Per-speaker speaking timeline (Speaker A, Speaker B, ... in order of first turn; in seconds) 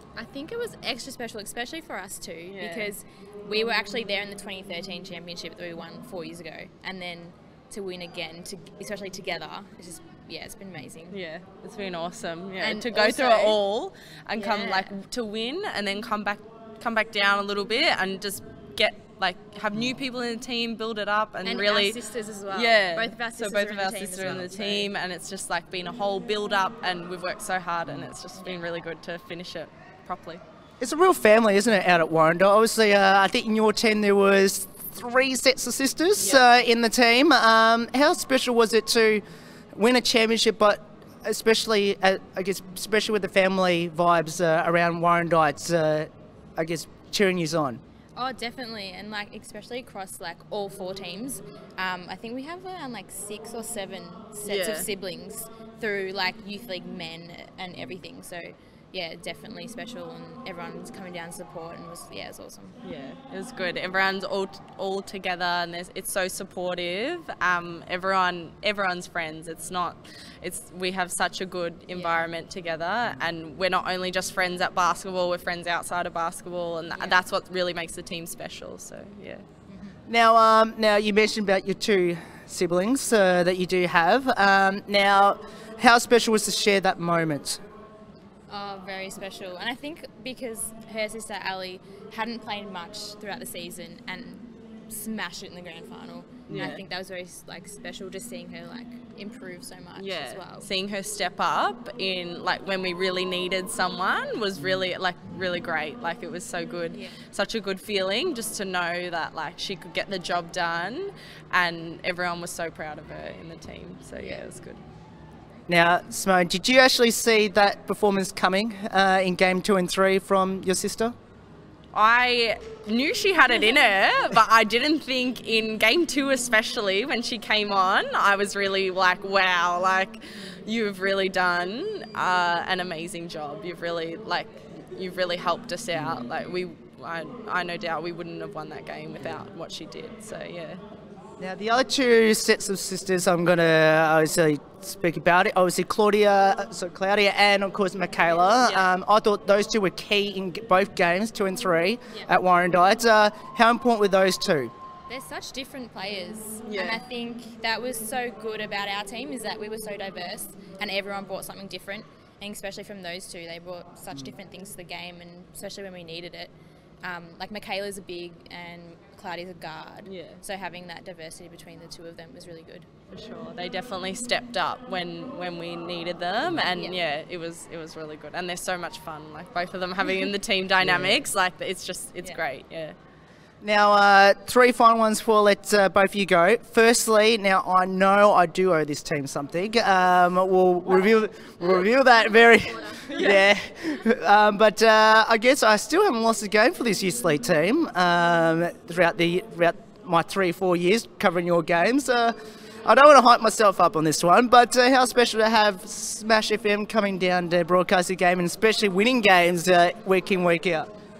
Speaker A: 0.2-11.2, 12.6-13.6, 14.3-14.9, 21.4-24.9, 28.4-28.7, 48.2-62.8, 71.9-72.3, 76.9-77.2, 79.7-80.0, 88.5-100.7, 106.9-107.2, 114.2-114.5, 148.4-148.9, 155.1-172.9, 176.7-177.0, 192.8-193.4
Speaker B: 2.5-2.9, 11.1-22.0, 22.5-30.4, 36.2-36.4, 54.5-54.9, 62.8-79.5, 96.5-96.8, 100.0-114.8, 121.9-140.8, 156.6-157.0, 170.1-170.4, 173.1-183.0, 193.0-193.5
Speaker C: 30.8-47.8, 80.1-87.6, 96.5-96.8, 115.7-121.1, 136.0-136.2, 141.4-154.7, 180.8-181.2, 183.6-210.9